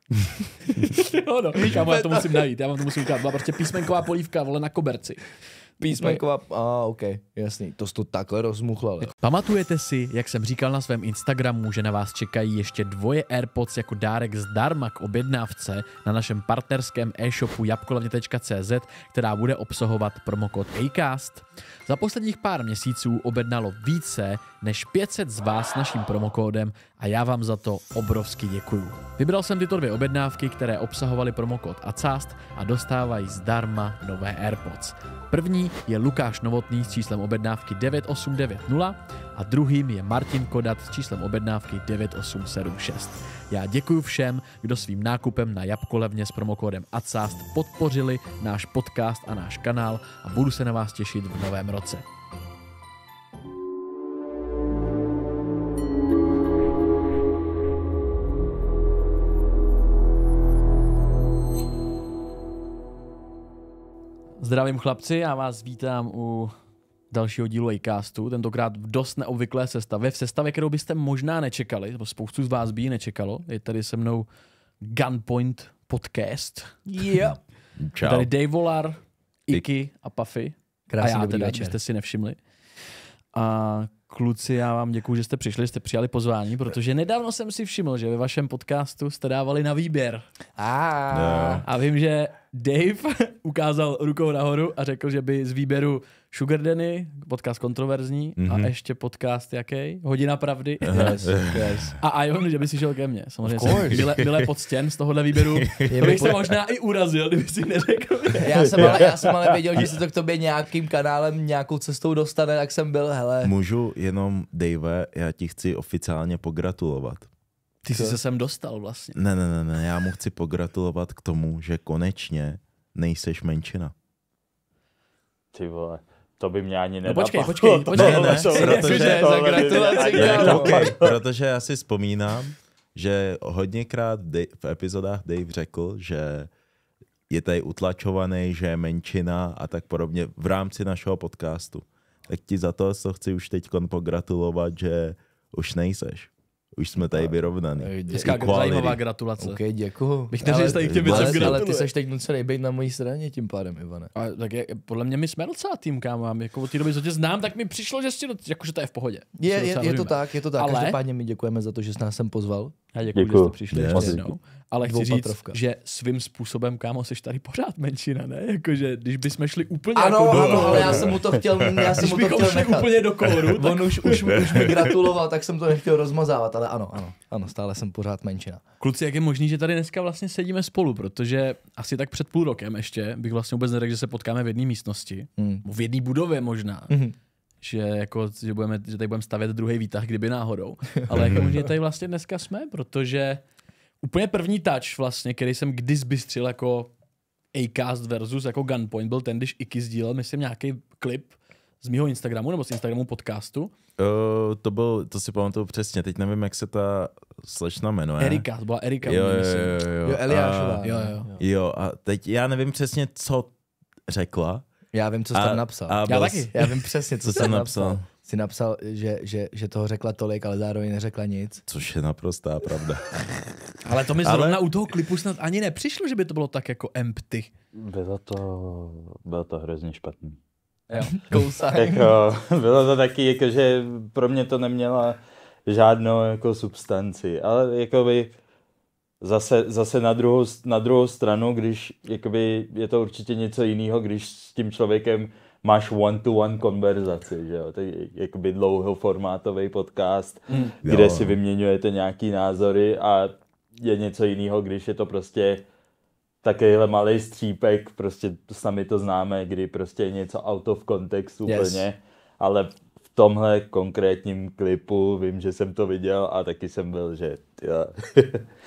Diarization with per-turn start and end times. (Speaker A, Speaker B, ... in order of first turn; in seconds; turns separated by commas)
Speaker A: 0.7-5.3, Speaker B: 1.6-2.4, Speaker B: 5.8-9.1, Speaker A: 5.8-6.2, Speaker A: 9.0-52.0, Speaker A: 64.4-66.5, Speaker A: 67.1-74.3, Speaker A: 74.8-76.8, Speaker B: 76.9-77.4, Speaker C: 77.2-78.3, Speaker A: 78.0-82.4, Speaker B: 80.9-81.7, Speaker A: 83.3-90.2, Speaker B: 90.6-91.6, Speaker C: 91.1-91.6, Speaker A: 91.6-109.0, Speaker C: 98.4-98.7, Speaker C: 100.8-102.0, Speaker B: 100.9-101.9, Speaker B: 103.5-104.0, Speaker C: 103.6-104.5, Speaker C: 105.4-106.3, Speaker B: 105.9-106.4, Speaker B: 108.4-113.5, Speaker D: 108.7-109.6, Speaker C: 113.4-117.3, Speaker A: 117.8-119.2, Speaker B: 117.9-118.2, Speaker C: 119.1-123.9, Speaker D: 125.5-131.2, Speaker A: 127.0-130.7, Speaker C: 127.9-129.2, Speaker B: 128.6-130.8, Speaker C: 130.2-136.5, Speaker C: 137.3-149.0, Speaker B: 147.0-148.4, Speaker A: 148.1-149.6, Speaker B: 149.4-154.1, Speaker A: 150.3-151.9, Speaker C: 150.6-151.6, Speaker A: 154.1-161.0, Speaker B: 159.4-162.7, Speaker A: 162.9-171.1, Speaker D: 163.1-164.2, Speaker C: 163.7-164.2, Speaker B: 163.9-164.2, Speaker B: 164.8-165.6, Speaker B: 169.9-178.6, Speaker C: 170.3-171.9, Speaker A: 171.9-174.3, Speaker C: 174.1-174.9, Speaker A: 178.8-186.9, Speaker B: 185.4-185.6, Speaker B: 186.9-187.1, Speaker A: 187.6-193.4, Speaker B: 191.1-191.6, Speaker C: 191.1-191.5, Speaker A: 194.0-196.9, Speaker A: 197.5-203.7, Speaker C: 204.0-208.4, Speaker A: 208.2-209.8, Speaker C: 209.0-213.5, Speaker B: 210.0-211.2, Speaker A: 210.8-211.3, Speaker C: 214.1-214.6, Speaker B: 214.9-221.6, Speaker C: 215.3-218.1, Speaker A: 216.1-216.5, Speaker C: 221.7-223.6, Speaker A: 223.8-227.5, Speaker C: 224.2-224.6, Speaker D: 227.7-230.4, Speaker B: 230.9-232.1, Speaker D: 231.0-238.3, Speaker D: 239.2-255.6, Speaker C: 250.8-251.4, Speaker D: 256.4-268.4, Speaker B: 261.4-261.9